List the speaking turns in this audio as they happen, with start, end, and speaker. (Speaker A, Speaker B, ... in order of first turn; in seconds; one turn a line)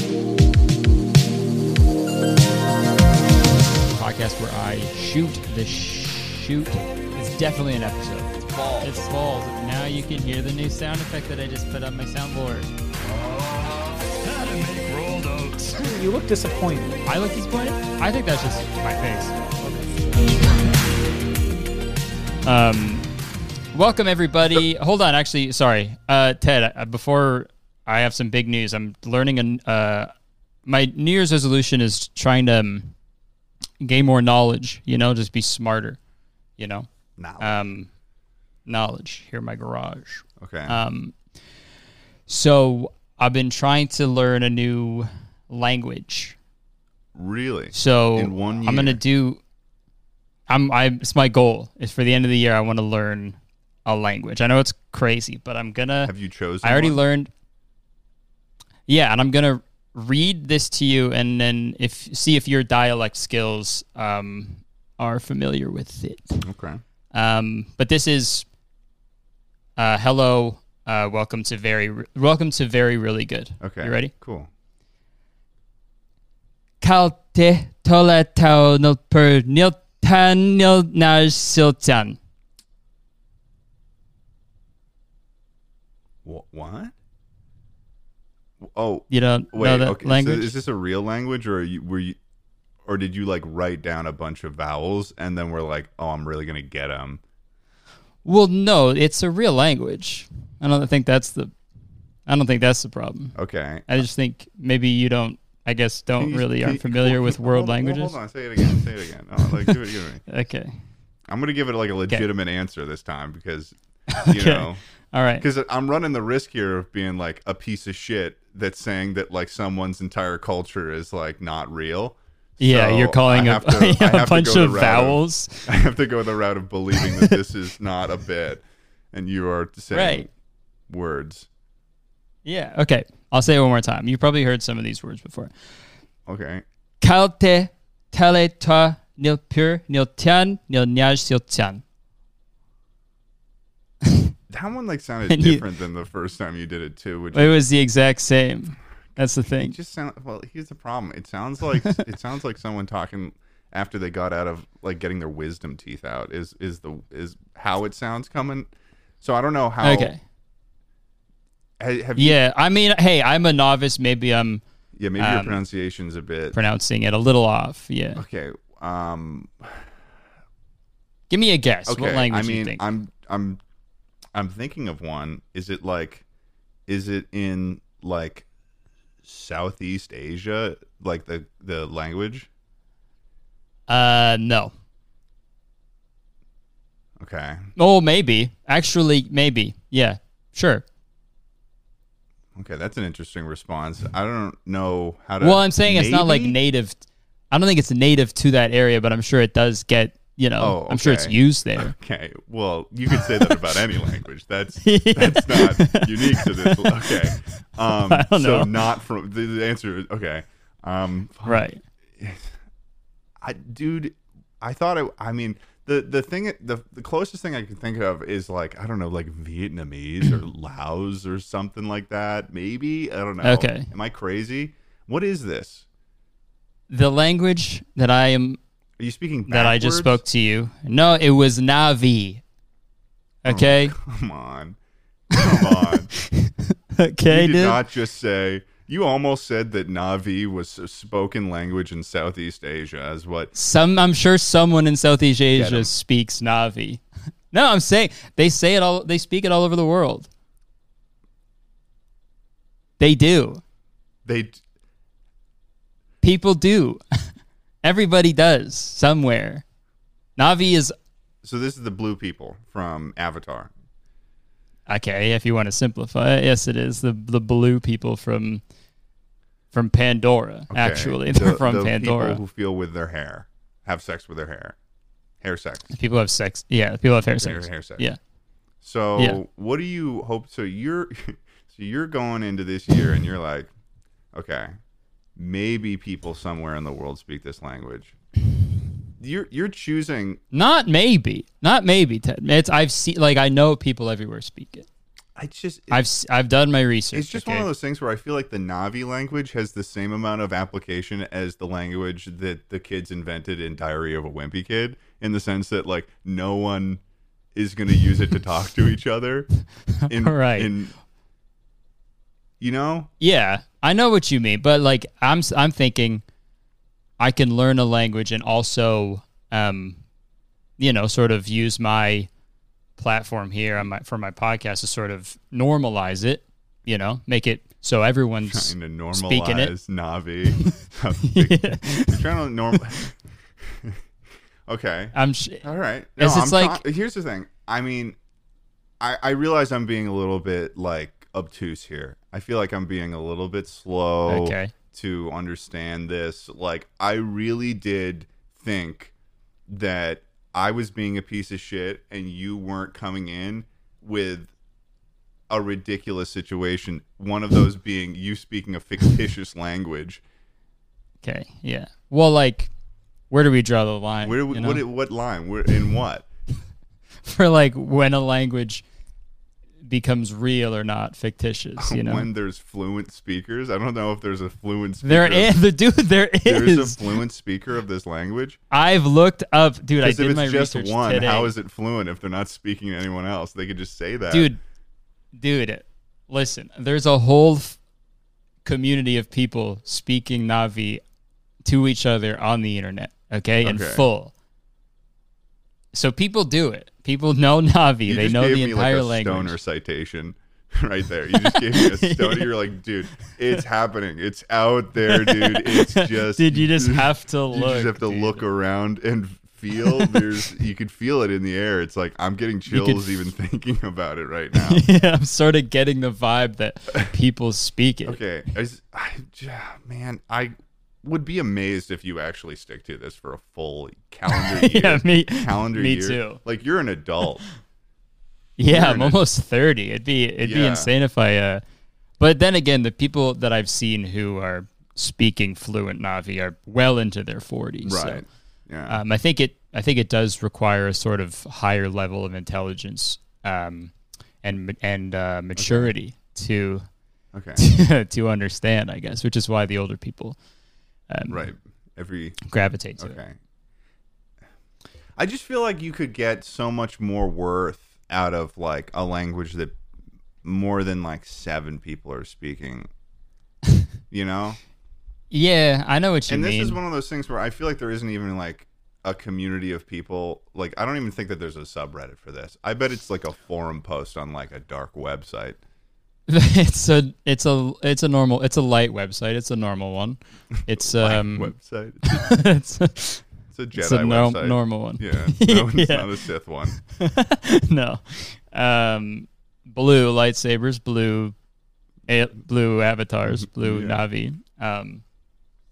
Speaker A: 3.9-12.7
Speaker A: 14.3-15.8
Speaker B: 15.8-17.0
Speaker A: 17.1-19.4
Speaker B: 19.6-20.4
Speaker A: 22.4-23.1
Speaker A: 23.7-30.1
Speaker A: 30.7-32.9
Speaker A: 33.8-36.0
Speaker A: 36.6-36.9
Speaker C: 37.2-37.6
Speaker A: 37.4-37.9
Speaker A: 38.7-41.1
Speaker C: 40.4-40.8
Speaker A: 42.3-46.4
Speaker C: 47.1-49.0
Speaker A: 47.7-49.4
Speaker A: 50.5-56.1
Speaker C: 56.0-57.0
Speaker A: 56.6-57.3
Speaker A: 58.9-66.4
Speaker C: 66.4-66.8
Speaker A: 67.1-68.5
Speaker A: 69.8-74.1
Speaker C: 73.6-74.5
Speaker A: 76.8-82.2
Speaker C: 86.2-86.9
Speaker C: 88.7-92.2
Speaker A: 89.1-90.5
Speaker C: 92.8-97.2
Speaker A: 98.2-101.5
Speaker A: 102.3-103.4
Speaker C: 103.4-104.0
Speaker A: 103.9-108.8
Speaker C: 106.2-110.2
Speaker A: 109.5-110.7
Speaker C: 111.3-114.8
Speaker A: 114.2-115.5
Speaker C: 115.4-130.3
Speaker A: 122.6-125.7
Speaker A: 127.0-127.4
Speaker A: 129.9-130.3
Speaker C: 130.9-131.5
Speaker A: 132.4-135.5
Speaker C: 136.3-136.6
Speaker A: 137.0-141.8
Speaker C: 144.5-147.6
Speaker A: 145.3-145.6
Speaker A: 147.3-149.8
Speaker C: 149.7-158.7
Speaker C: 159.2-160.2
Speaker A: 159.8-160.2
Speaker C: 161.8-162.4
Speaker A: 162.2-164.6
Speaker C: 165.0-166.6
Speaker A: 165.2-165.6
Speaker A: 166.5-168.2
Speaker C: 168.2-169.9
Speaker A: 171.3-172.8
Speaker C: 171.9-173.6
Speaker C: 174.3-176.2
Speaker C: 176.9-178.5
Speaker C: 179.2-182.5
Speaker A: 183.9-184.7
Speaker C: 187.2-187.7
Speaker A: 187.8-190.8
Speaker C: 192.6-196.6
Speaker A: 195.4-201.9
Speaker C: 200.6-211.6
Speaker A: 204.8-207.4
Speaker A: 207.9-208.7
Speaker A: 211.4-211.8
Speaker C: 212.2-212.5
Speaker C: 213.4-225.8
Speaker A: 223.4-223.9
Speaker A: 226.9-228.6
Speaker C: 229.0-230.2
Speaker A: 229.5-232.4
Speaker A: 233.4-233.9
Speaker C: 233.5-234.8
Speaker C: 235.3-236.1
Speaker A: 235.3-237.8
Speaker C: 237.3-243.5
Speaker A: 243.6-250.3
Speaker C: 245.6-245.9
Speaker A: 253.0-253.6
Speaker C: 254.2-254.6
Speaker A: 256.2-257.0
Speaker A: 257.8-259.6
Speaker A: 260.4-260.9
Speaker C: 261.4-263.7
Speaker A: 264.9-268.6
Speaker A: 269.7-272.4
Speaker C: 270.7-274.8
Speaker C: 275.4-275.9
Speaker A: 275.9-278.2
Speaker C: 277.4-278.1
Speaker C: 278.8-283.7
Speaker C: 284.3-284.7
Speaker C: 285.4-288.2
Speaker C: 289.2-290.4
Speaker A: 290.5-294.9
Speaker C: 295.4-296.0
Speaker A: 295.9-297.7
Speaker C: 297.1-307.0
Speaker C: 307.6-309.5
Speaker A: 310.1-310.7
Speaker C: 310.1-310.9
Speaker C: 312.6-313.1
Speaker A: 313.2-316.2
Speaker A: 317.2-320.0
Speaker A: 320.8-322.3
Speaker A: 323.0-329.8
Speaker C: 328.4-334.0
Speaker A: 331.2-332.8
Speaker C: 334.7-338.2
Speaker A: 335.1-335.6
Speaker A: 336.2-336.8
Speaker C: 339.0-349.1
Speaker A: 344.3-344.7
Speaker C: 349.7-354.5
Speaker C: 355.5-360.2
Speaker A: 361.2-362.7
Speaker A: 363.3-364.8
Speaker C: 364.2-366.3
Speaker A: 367.2-368.8
Speaker A: 369.9-372.3
Speaker C: 371.8-375.6
Speaker A: 375.0-377.0
Speaker C: 376.4-378.6
Speaker A: 378.7-381.5
Speaker C: 380.0-384.5
Speaker A: 384.3-384.6
Speaker A: 385.4-387.8
Speaker A: 388.6-391.0
Speaker A: 391.6-394.3
Speaker C: 393.6-394.1
Speaker A: 395.9-399.6
Speaker C: 398.1-414.8
Speaker A: 401.3-402.5
Speaker A: 405.1-408.4
Speaker A: 409.9-410.2
Speaker A: 412.7-413.1
Speaker A: 414.6-418.2
Speaker C: 418.1-427.4
Speaker A: 424.3-426.4
Speaker A: 428.6-431.6
Speaker C: 428.7-429.2
Speaker C: 430.4-430.9
Speaker A: 432.2-438.2
Speaker C: 437.8-439.0
Speaker A: 438.9-446.9
Speaker C: 445.6-445.9
Speaker C: 447.3-447.6
Speaker A: 447.6-450.4
Speaker A: 451.1-451.5
Speaker C: 451.3-452.4
Speaker A: 452.5-453.2
Speaker C: 453.0-453.4
Speaker C: 455.2-459.8
Speaker C: 460.4-462.9
Speaker C: 464.1-464.6
Speaker A: 465.3-466.8
Speaker C: 466.3-475.6
Speaker A: 476.3-481.5
Speaker C: 480.7-482.5
Speaker A: 482.1-483.2
Speaker C: 483.5-486.8
Speaker A: 483.8-486.2
Speaker A: 486.8-491.4
Speaker A: 492.1-495.0
Speaker C: 493.5-494.0